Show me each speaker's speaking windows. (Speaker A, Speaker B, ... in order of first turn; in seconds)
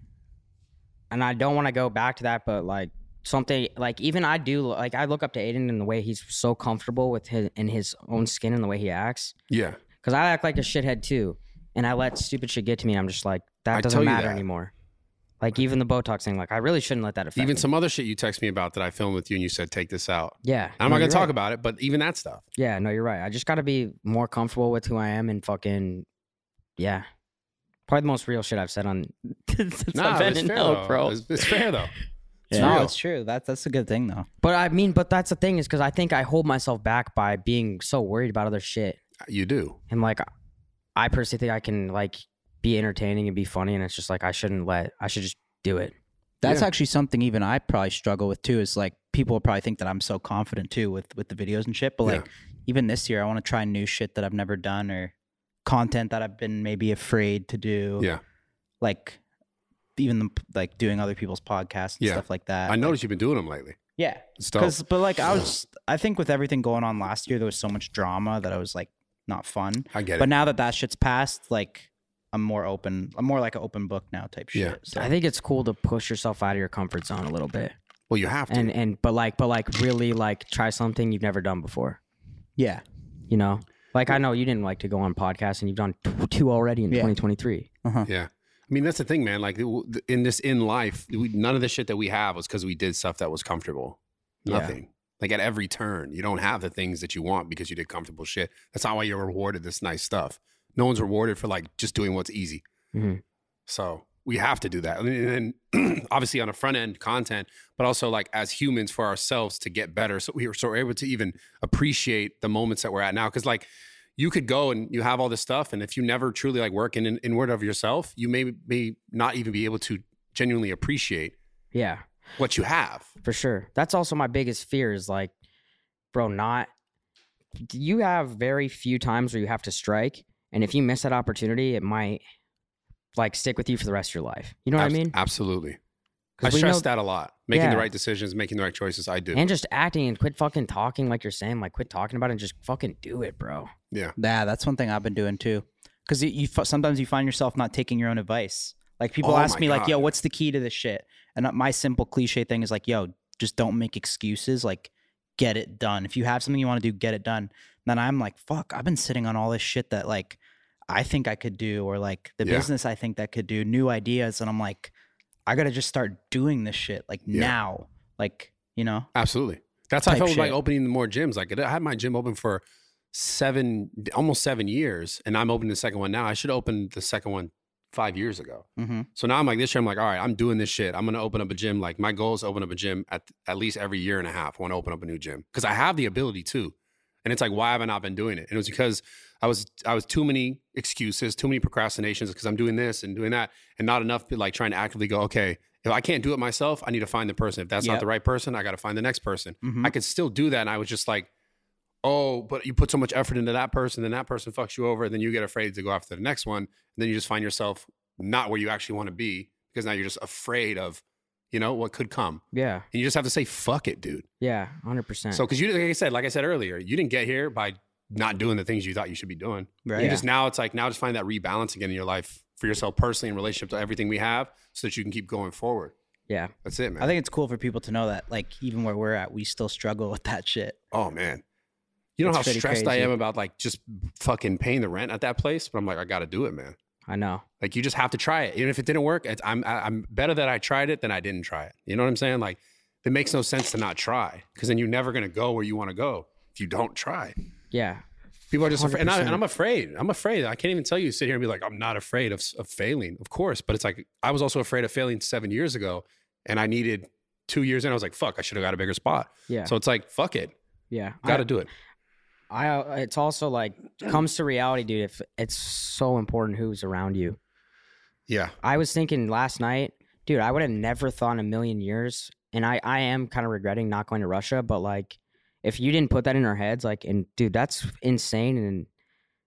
Speaker A: 1.1-9.3, 10.0-14.7, 15.4-17.6, 20.4-21.3, 22.6-26.1, 26.8-27.1, 27.9-31.7, 32.5-32.8, 34.4-39.0, 39.9-40.2, 41.0-45.9, 74.9-77.7, 78.5-82.0, 83.3-87.7, 94.5-94.8, 102.9-103.2, 121.7-122.0, 123.2-125.3, 126.1-126.7, 127.6-132.2, 133.2-135.1, 136.4-136.9, 137.5-137.9, 139.3-143.7, 212.5-212.8, 214.4-215.4, 219.9-220.2, 237.1-237.4, 247.7-248.0, 248.6-249.4, 259.5-259.7, 260.9-261.5, 262.5-267.4, 268.6-278.9
Speaker B: 9.5-9.8, 13.7-14.4, 17.4-22.4, 29.9-31.9, 32.5-32.9, 39.2-39.8, 62.0-63.8, 64.4-64.8, 69.9-70.3, 78.1-78.7, 88.0-102.6, 103.7-121.3, 122.4-123.1, 134.8-135.8, 136.4-139.4, 149.2-150.1, 162.4-162.7, 169.1-186.7, 187.2-201.3, 202.0-214.2, 215.3-225.9, 226.6-227.1, 230.9-231.4, 232.2-236.8, 237.6-247.3, 248.5-260.5, 261.2-261.7, 268.3-268.6
Speaker C: 32.5-34.3, 46.4-55.1, 55.6-58.1, 58.8-59.2, 60.0-62.9, 64.0-75.1, 82.6-82.8, 144.2-160.4, 160.9-164.9, 165.4-169.1, 170.1-170.6, 178.8-179.1, 199.6-199.9, 219.9-220.2, 227.0-230.8, 232.2-233.1